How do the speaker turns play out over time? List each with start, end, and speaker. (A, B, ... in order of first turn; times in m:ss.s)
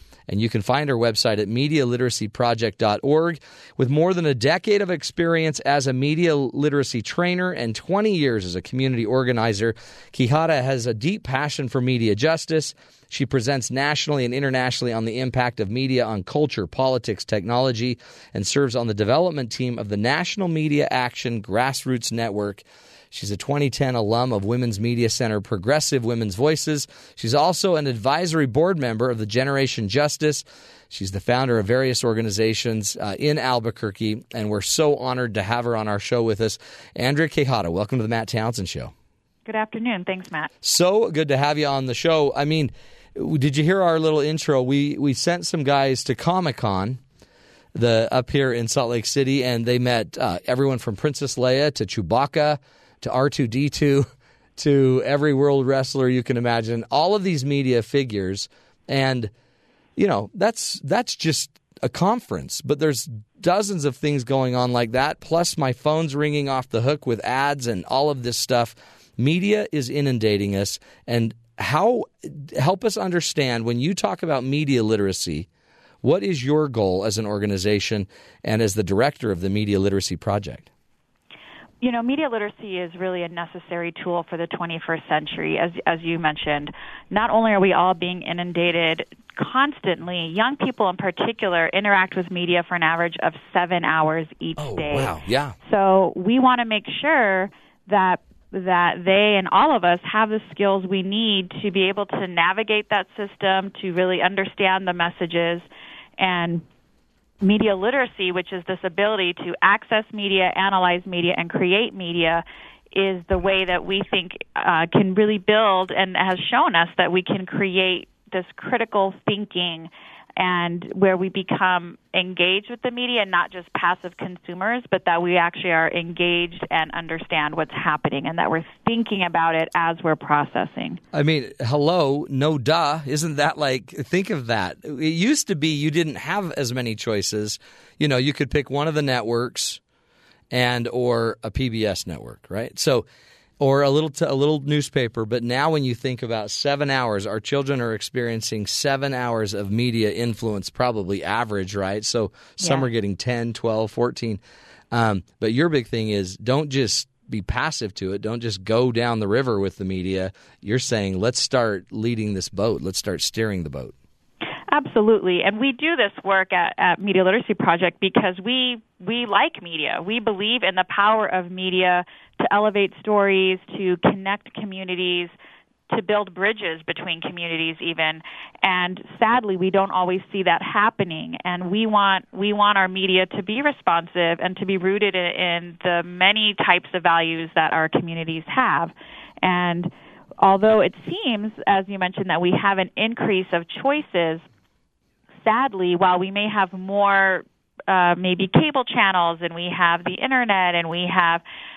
0:00.3-0:38.9 A
0:39.5-0:40.5 B
0:40.6-0:47.0 A
0:47.7-0:59.3 A
1:00.0-1:15.5 A
1:16.0-1:20.7 A
1:21.8-1:45.7 B
1:34.6-1:35.6 A
1:46.2-1:46.6 B
1:47.4-2:11.0 B
2:11.1-2:19.8 A
2:20.5-2:23.0 A
2:23.6-2:34.4 A
2:32.6-2:32.9 B
2:34.9-2:43.9 A
2:44.7-2:55.3 B
2:55.9-3:09.9 B
3:10.4-3:14.4 B
3:15.4-3:21.4 B